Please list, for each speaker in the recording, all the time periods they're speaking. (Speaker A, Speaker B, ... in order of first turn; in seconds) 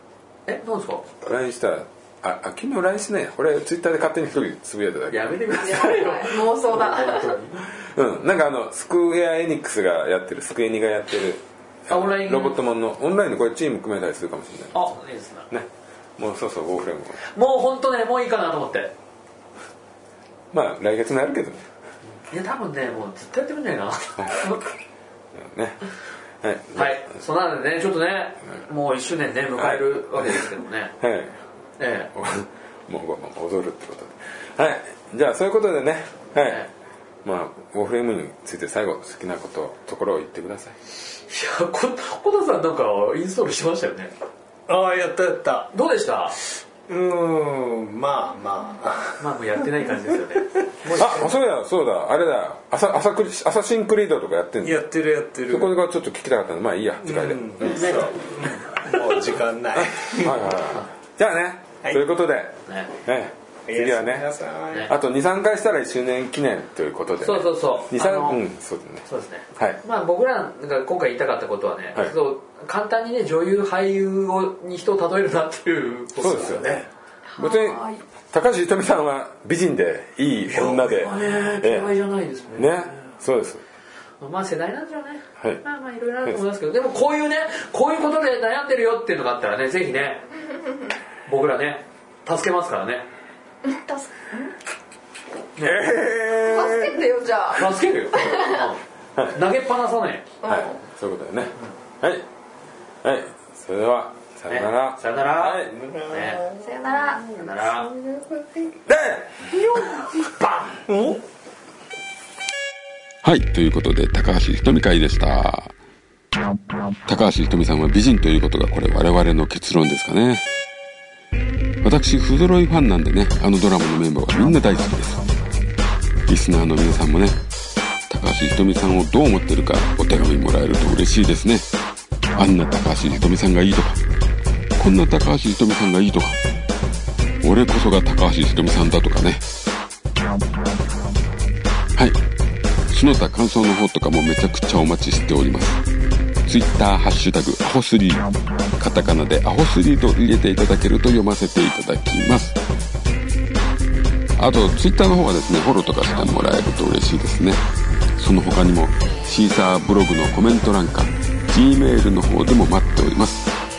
Speaker A: 0.5-1.1, 5.1-7.7, 11.9-12.6, 14.7-15.5, 17.3-18.9, 22.3-24.8, 26.7-30.9, 31.8-32.1, 36.4-36.7, 41.3-44.1, 45.7-46.4, 49.2-51.3, 57.7-58.2, 62.7-62.9, 67.2-68.5, 69.0-76.8, 80.5-83.0, 84.2-90.3, 91.3-93.1, 97.5-100.3, 104.5-106.5, 107.3-107.9
Speaker B: 1.2-6.1, 7.8-14.9, 15.5-17.2, 20.5-21.6, 25.4-25.8, 26.4-27.1, 29.6-30.4, 31.0-31.4, 32.1-36.7, 37.2-40.8, 51.0-54.8, 55.5-58.0, 59.8-64.3, 64.8-69.0, 76.2-76.9, 77.4-81.9, 82.6-83.6, 95.6-97.1, 100.4-102.3, 103.0-105.7, 108.9-110.0
Speaker C: 5.6-7.4, 77.3-78.0, 93.6-94.5, 96.4-98.7, 100.4-100.8, 106.6-107.3
Speaker D: 44.7-45.7, 46.9-49.3, 54.6-55.7, 57.0-60.5, 63.7-64.9, 105.7-108.8, 109.6-111.2
Speaker E: 113.2-115.7, 117.1-120.5, 121.8-125.2, 126.3-127.4, 128.1-131.7, 132.4-134.0, 134.8-136.4, 137.4-139.4, 142.9-145.8, 146.5-152.6, 154.4-157.6, 158.2-163.4